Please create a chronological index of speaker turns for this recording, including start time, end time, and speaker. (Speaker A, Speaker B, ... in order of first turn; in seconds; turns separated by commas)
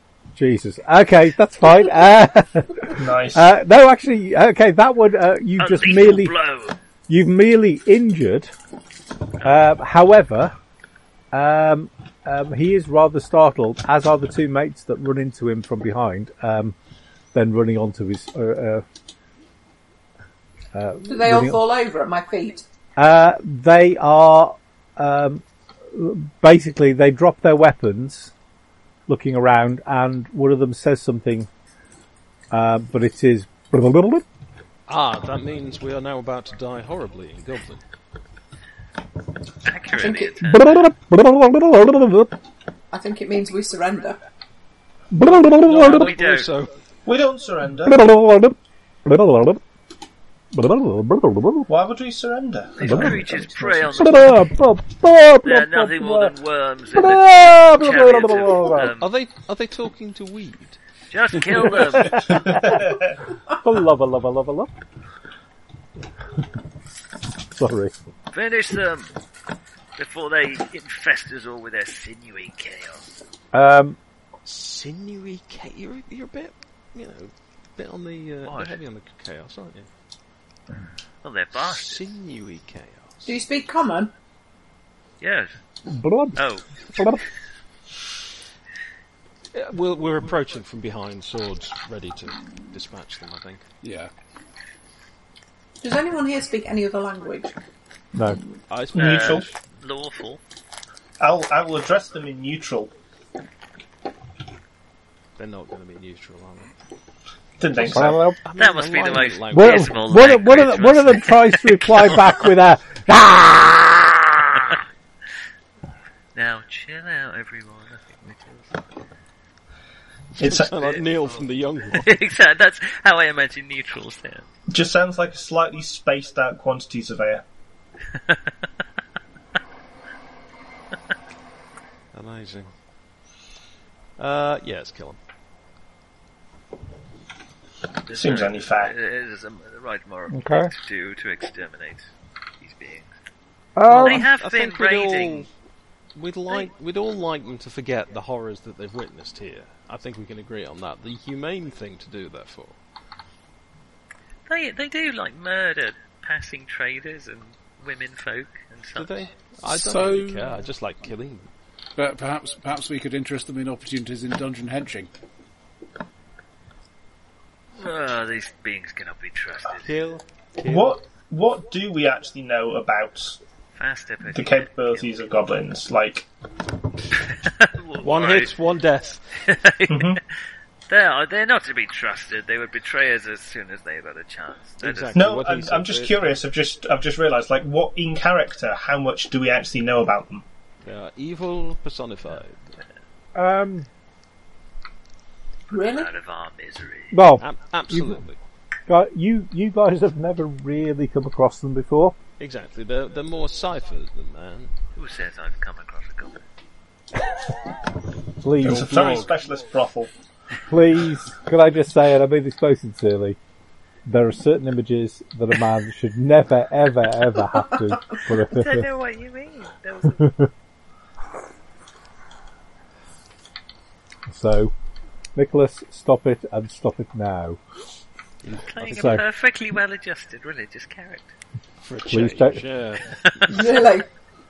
Speaker A: 0.3-6.3, Speaker B: 2.9-3.5, Speaker C: 5.6-6.7, Speaker A: 7.1-8.5, Speaker A: 9.4-10.5, Speaker A: 11.3-16.8, Speaker A: 17.3-18.8, Speaker A: 20.7-21.6, Speaker D: 21.1-22.6, Speaker A: 23.0-28.3, Speaker A: 29.1-31.5, Speaker A: 32.5-34.2, Speaker E: 34.9-37.8, Speaker C: 39.6-40.8, Speaker D: 40.0-40.4, Speaker A: 40.4-42.4, Speaker D: 42.9-44.2, Speaker A: 45.1-46.1, Speaker E: 45.6-46.7, Speaker C: 45.8-46.5, Speaker B: 47.0-48.0, Speaker A: 47.8-49.6, Speaker A: 50.5-51.7, Speaker B: 51.7-53.4, Speaker C: 52.8-54.4, Speaker A: 52.8-53.3, Speaker A: 53.9-56.3, Speaker C: 55.4-59.1, Speaker A: 56.9-58.9, Speaker E: 58.9-60.8, Speaker C: 61.1-62.6, Speaker A: 61.9-62.8, Speaker B: 62.4-63.1, Speaker A: 63.5-64.7, Speaker A: 67.5-67.9, Speaker C: 68.3-69.1, Speaker C: 70.0-73.0, Speaker A: 73.5-74.0, Speaker E: 74.4-79.9, Speaker C: 78.4-78.8, Speaker C: 81.2-82.0, Speaker E: 81.6-83.3, Speaker D: 83.2-84.1, Speaker C: 85.2-85.5, Speaker A: 85.9-86.4, Speaker C: 86.3-86.6, Speaker A: 86.9-87.2, Speaker E: 89.5-93.6, Speaker F: 93.8-94.1, Speaker D: 95.8-97.5, Speaker A: 98.1-98.4, Speaker E: 98.7-99.5, Speaker B: 98.9-99.5, Speaker C: 99.0-100.4, Speaker B: 101.2-102.9, Speaker E: 105.4-106.7, Speaker B: 107.6-108.2, Speaker A: 107.8-108.4, Speaker E: 108.4-110.0, Speaker C: 108.5-112.5, Speaker A: 109.5-114.5, Speaker C: 116.3-118.8, Speaker B: 120.4-121.0, Speaker E: 120.4-122.1, Speaker C: 121.9-124.5, Speaker B: 124.7-127.4, Speaker C: 128.1-128.5, Speaker E: 132.1-132.7, Speaker E: 134.2-135.2, Speaker C: 138.1-142.1, Speaker B: 138.1-138.9, Speaker A: 140.3-140.7, Speaker C: 142.6-143.1, Speaker A: 143.8-144.2, Speaker E: 143.9-145.5, Speaker C: 143.9-145.5, Speaker E: 146.1-152.8, Speaker C: 154.5-159.2, Speaker E: 158.9-161.5, Speaker F: 159.7-160.5, Speaker F: 162.0-165.1, Speaker C: 167.8-169.9, Speaker E: 169.8-171.0, Speaker B: 170.6-173.4, Speaker C: 173.7-175.2, Speaker B: 174.3-176.2, Speaker C: 177.2-178.5, Speaker E: 178.0-179.2, Speaker C: 179.3-180.2, Speaker B: 179.9-180.2, Speaker C: 180.9-185.2, Speaker E: 184.8-186.4, Speaker B: 185.1-190.4, Speaker E: 190.8-192.7, Speaker A: 193.3-193.9, Speaker D: 195.7-196.1, Speaker C: 195.7-197.2, Speaker A: 197.1-198.2, Speaker E: 197.4-198.4, Speaker A: 198.9-202.1, Speaker E: 202.4-204.7, Speaker C: 204.9-206.4, Speaker A: 208.4-208.9, Speaker F: 208.6-209.3, Speaker B: 208.6-210.1, Speaker A: 210.7-213.4, Speaker A: 214.1-218.9, Speaker C: 218.3-220.3, Speaker A: 220.2-220.5, Speaker A: 224.3-224.7, Speaker A: 225.3-227.6, Speaker E: 228.5-229.1, Speaker C: 228.5-231.3, Speaker A: 228.8-229.2, Speaker E: 231.8-233.6, Speaker A: 232.1-232.6, Speaker C: 233.2-233.7, Speaker D: 233.4-234.1